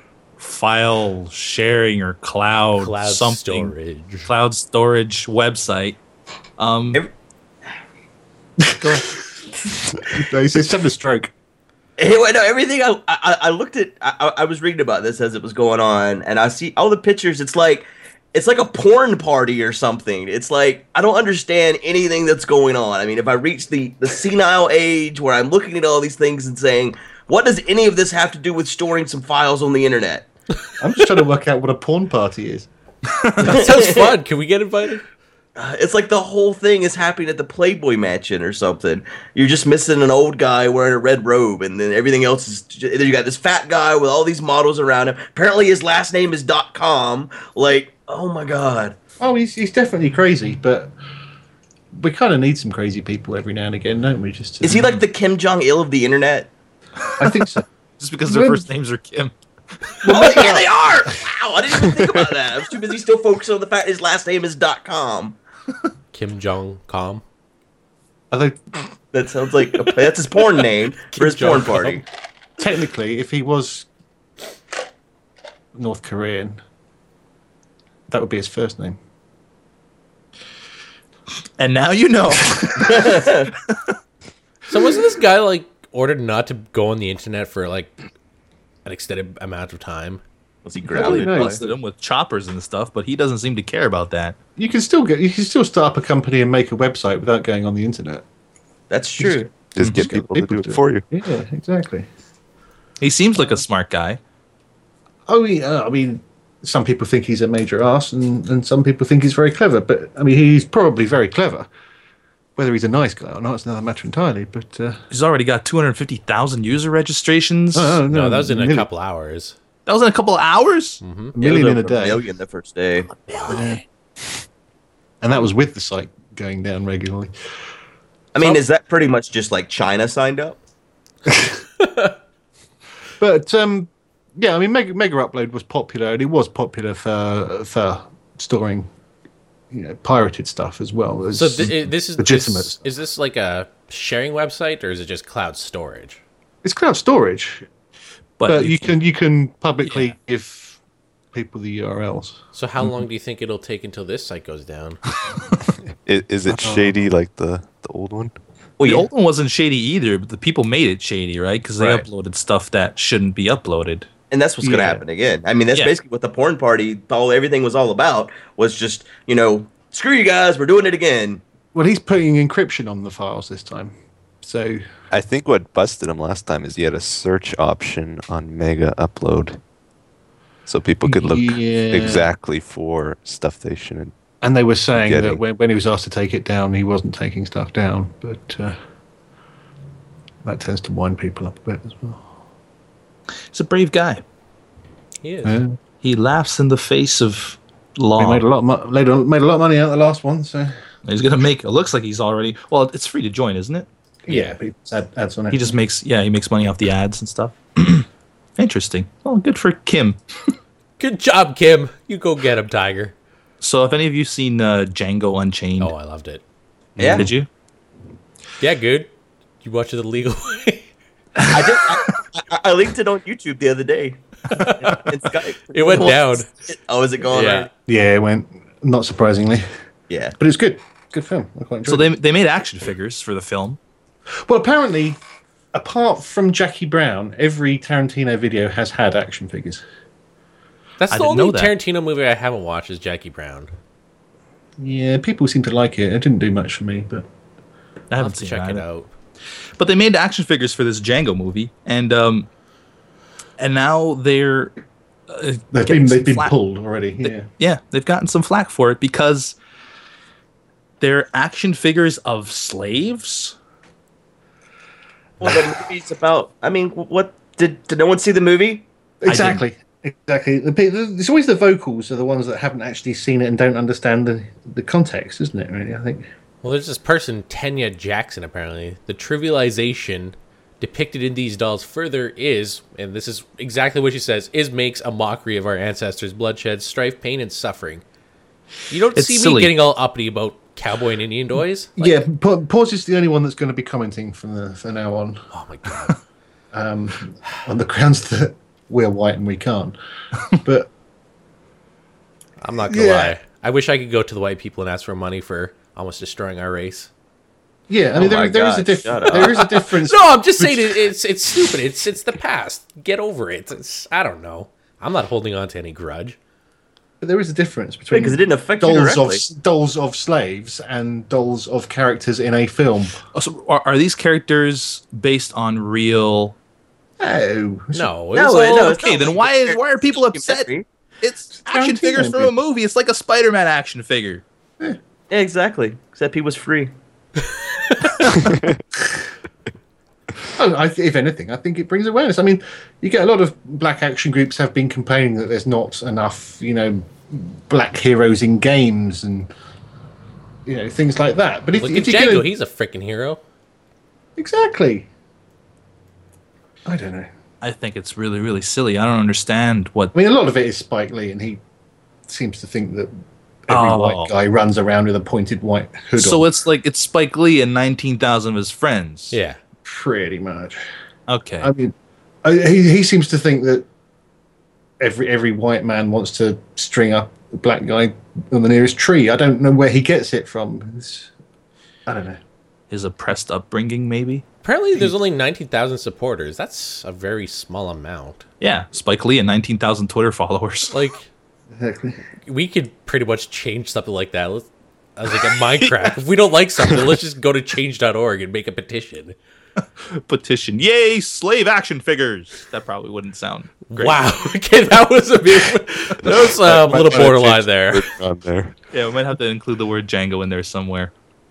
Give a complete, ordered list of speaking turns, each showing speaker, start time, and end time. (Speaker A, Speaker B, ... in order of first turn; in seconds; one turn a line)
Speaker A: 0.4-3.7
Speaker B: 2.8-4.3
Speaker A: 4.3-6.0
Speaker A: 6.6-7.0
Speaker C: 8.6-9.3
Speaker A: 8.8-9.1
Speaker C: 10.0-11.3
Speaker D: 12.0-30.3
Speaker C: 30.8-32.7
Speaker A: 33.2-33.6
Speaker B: 33.4-35.0
Speaker D: 33.4-34.1
Speaker D: 35.6-49.0
Speaker C: 49.2-50.9
Speaker C: 51.9-54.9
Speaker D: 54.6-56.5
Speaker C: 57.2-57.6
Speaker A: 58.0-59.3
Speaker C: 58.2-58.6
Speaker C: 60.0-61.1
Speaker D: 60.0-65.4
Speaker B: 66.1-67.2
Speaker C: 68.3-68.9
Speaker D: 69.1-72.0
Speaker B: 71.1-72.0
Speaker C: 72.6-73.9
Speaker C: 75.8-76.6
Speaker C: 78.1-79.0
Speaker A: 81.6-83.9
Speaker D: 82.9-83.5
Speaker B: 84.7-87.9
Speaker B: 88.8-90.2
Speaker D: 90.6-91.6
Speaker C: 90.9-91.7
Speaker A: 90.9-94.4
Speaker C: 94.6-98.2
Speaker D: 98.9-99.5
Speaker C: 99.2-102.1
Speaker E: 99.8-101.1
Speaker A: 99.8-100.1
Speaker A: 103.0-104.2
Speaker C: 105.3-111.7
Speaker C: 112.6-115.0
Speaker A: 115.1-118.0
Speaker C: 117.7-118.9
Speaker B: 118.1-119.5
Speaker A: 119.9-121.0
Speaker B: 121.0-121.3
Speaker C: 121.3-122.2
Speaker D: 121.4-123.1
Speaker C: 123.5-123.8
Speaker C: 125.2-127.3
Speaker D: 128.3-130.6
Speaker B: 131.8-132.1
Speaker C: 133.2-138.9
Speaker C: 139.7-142.8
Speaker B: 141.3-146.2
Speaker C: 146.6-147.7
Speaker A: 148.4-148.9
Speaker C: 148.5-150.8
Speaker C: 151.3-152.4
Speaker B: 152.5-155.0
Speaker E: 156.1-158.3
Speaker C: 156.5-157.0
Speaker D: 158.8-159.1
Speaker A: 158.8-164.1
Speaker D: 164.3-171.4
Speaker C: 164.6-165.0
Speaker C: 171.7-174.8
Speaker E: 175.1-179.6
Speaker E: 180.7-184.1
Speaker C: 181.0-182.3
Speaker C: 184.4-188.8
Speaker E: 185.0-185.4
Speaker C: 190.4-192.2
Speaker A: 193.5-194.2
Speaker B: 195.2-195.6
Speaker C: 195.4-195.8
Speaker A: 196.0-198.4
Speaker C: 198.2-200.7
Speaker A: 201.1-203.9
Speaker C: 204.2-205.8
Speaker B: 204.3-204.5
Speaker A: 205.5-210.2
Speaker B: 211.0-213.1
Speaker A: 213.6-215.9
Speaker B: 215.8-216.4
Speaker D: 217.0-217.3
Speaker A: 217.0-217.5
Speaker B: 218.6-219.1
Speaker B: 219.6-220.9
Speaker D: 221.5-224.2
Speaker B: 224.5-225.0
Speaker D: 224.8-227.7
Speaker B: 225.7-226.5
Speaker B: 227.3-227.7
Speaker C: 227.9-229.6
Speaker D: 230.1-230.3
Speaker C: 230.4-232.1
Speaker A: 231.9-233.8
Speaker C: 234.5-235.2
Speaker C: 235.7-239.8
Speaker B: 241.0-243.7
Speaker A: 241.1-241.7
Speaker C: 244.8-247.3
Speaker A: 248.1-248.8
Speaker B: 248.2-249.1
Speaker A: 249.8-252.5
Speaker A: 253.6-254.7
Speaker A: 255.3-256.5
Speaker C: 255.7-257.5
Speaker A: 257.2-259.6
Speaker A: 261.0-263.6
Speaker D: 265.4-268.9
Speaker C: 269.2-276.3
Speaker A: 269.3-269.6
Speaker B: 276.6-288.0
Speaker B: 288.9-292.2
Speaker A: 289.1-289.8
Speaker C: 292.0-295.5
Speaker B: 295.5-296.2
Speaker C: 296.7-300.0
Speaker C: 300.6-300.9
Speaker B: 302.6-307.1
Speaker C: 302.9-303.4
Speaker C: 307.9-311.0
Speaker D: 308.1-309.6
Speaker B: 309.3-316.4
Speaker C: 317.2-323.2
Speaker D: 318.1-319.4
Speaker A: 323.3-326.6
Speaker C: 327.2-328.1
Speaker B: 327.9-329.0
Speaker D: 328.3-330.9
Speaker A: 328.9-334.4
Speaker C: 331.6-332.5
Speaker D: 335.3-336.9
Speaker E: 338.4-338.8
Speaker C: 340.5-349.5
Speaker C: 350.6-352.5
Speaker B: 351.8-353.4
Speaker C: 354.4-355.1
Speaker C: 356.9-357.3
Speaker A: 357.6-360.1
Speaker C: 360.1-361.6
Speaker C: 362.3-363.1
Speaker C: 363.7-366.5
Speaker A: 363.7-364.3
Speaker A: 366.2-369.4
Speaker B: 369.3-369.6
Speaker C: 369.9-370.8
Speaker A: 371.3-371.7
Speaker C: 371.6-373.9
Speaker C: 375.0-381.3
Speaker C: 382.1-382.4
Speaker A: 382.9-384.4
Speaker B: 384.6-388.5
Speaker A: 388.6-391.0
Speaker B: 390.9-391.3
Speaker C: 391.8-392.2
Speaker B: 392.5-399.4
Speaker A: 400.0-404.3
Speaker B: 403.9-408.1
Speaker E: 406.2-408.8
Speaker A: 408.9-411.1